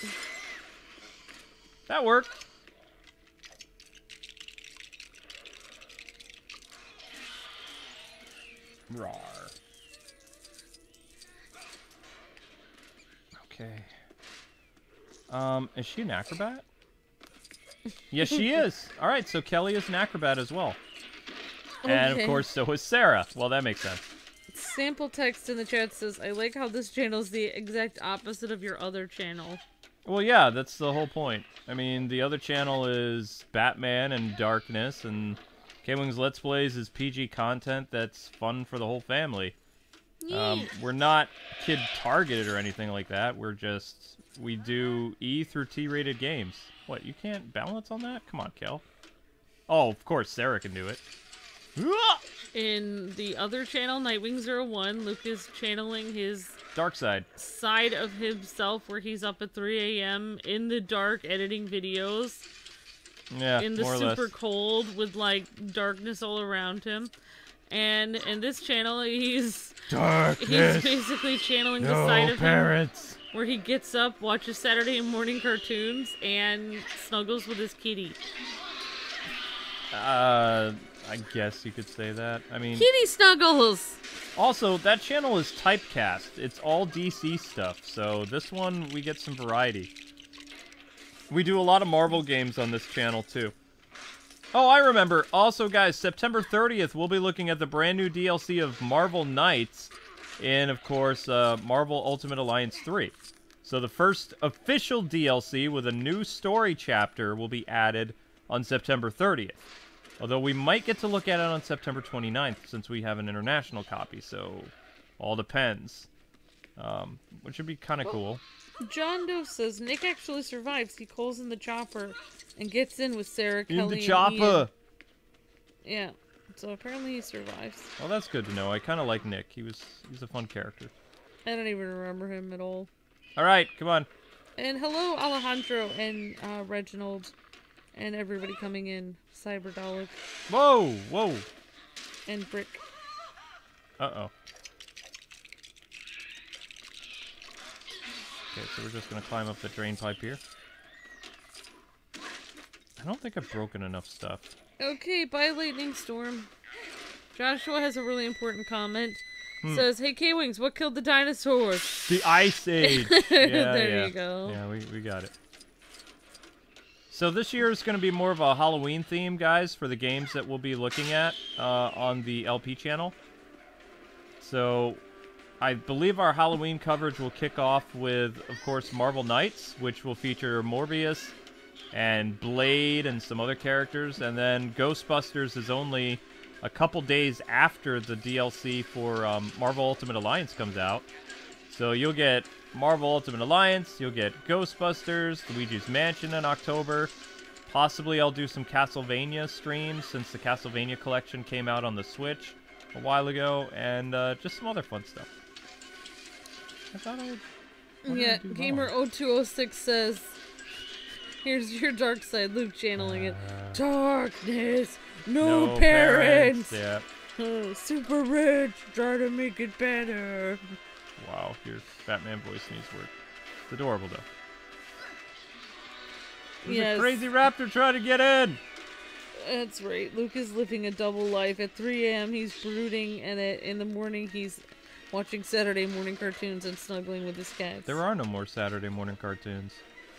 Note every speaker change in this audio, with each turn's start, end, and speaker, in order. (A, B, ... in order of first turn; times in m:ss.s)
0:01.9-0:02.4 A
0:08.9-0:09.6 A
0:13.3-0:13.9 A
0:15.3-0:16.6 A
0:18.1-0:20.8 A
0:21.8-0:22.5 B
0:21.9-0:24.0 A
0:24.5-0:29.6 B
0:30.0-0:39.6 A
0:40.2-0:40.7 B
0:40.3-0:48.8 A
0:49.7-0:51.0 A
0:51.8-0:52.2 A
0:52.5-0:56.6 B
0:56.8-0:57.3 A
0:57.4-1:02.5 B
1:03.3-1:04.3 A
1:03.6-1:07.1 B
1:07.7-1:09.8 B
1:09.9-1:11.0 A
1:10.4-1:12.7 B
1:11.8-1:13.2 A
1:13.3-1:18.2 B
1:19.9-1:22.9 A
1:22.8-1:24.0 B
1:24.4-1:29.9 A
1:31.3-1:33.6 A
1:34.5-1:49.6 A
1:50.2-1:56.1 A
1:56.8-1:58.4 A
1:58.8-2:04.7 B
2:03.7-2:04.7 A
2:05.8-2:07.9 B
2:08.0-2:10.9 A
2:11.5-2:12.9 B
2:13.4-2:14.1 A
2:14.6-2:17.3 B
2:17.9-2:20.2 B
2:20.5-2:21.5 A
2:22.3-2:22.8 B
2:24.0-2:24.3 A
2:28.5-2:30.4 A
2:33.0-2:34.6 A
2:34.8-2:36.5 B
2:37.3-2:42.1 B
2:42.1-2:45.3 A
2:42.8-2:44.6 B
2:47.1-2:53.2 A
2:54.4-2:55.0 A
2:55.6-3:01.4 A
3:01.9-3:11.1 A
3:11.7-3:17.1 A
3:17.7-3:25.3 A
3:26.9-3:27.4 A
3:28.0-3:30.4 B
3:28.1-3:28.9 A
3:31.4-3:36.8 B
3:33.0-3:33.8 A
3:35.4-3:37.1 A
3:37.4-3:40.8 B
3:41.2-3:43.1 A
3:43.7-3:44.3 A
3:46.6-3:47.2 B
3:46.6-3:48.6 A
3:49.4-3:58.0 B
3:57.9-3:59.8 A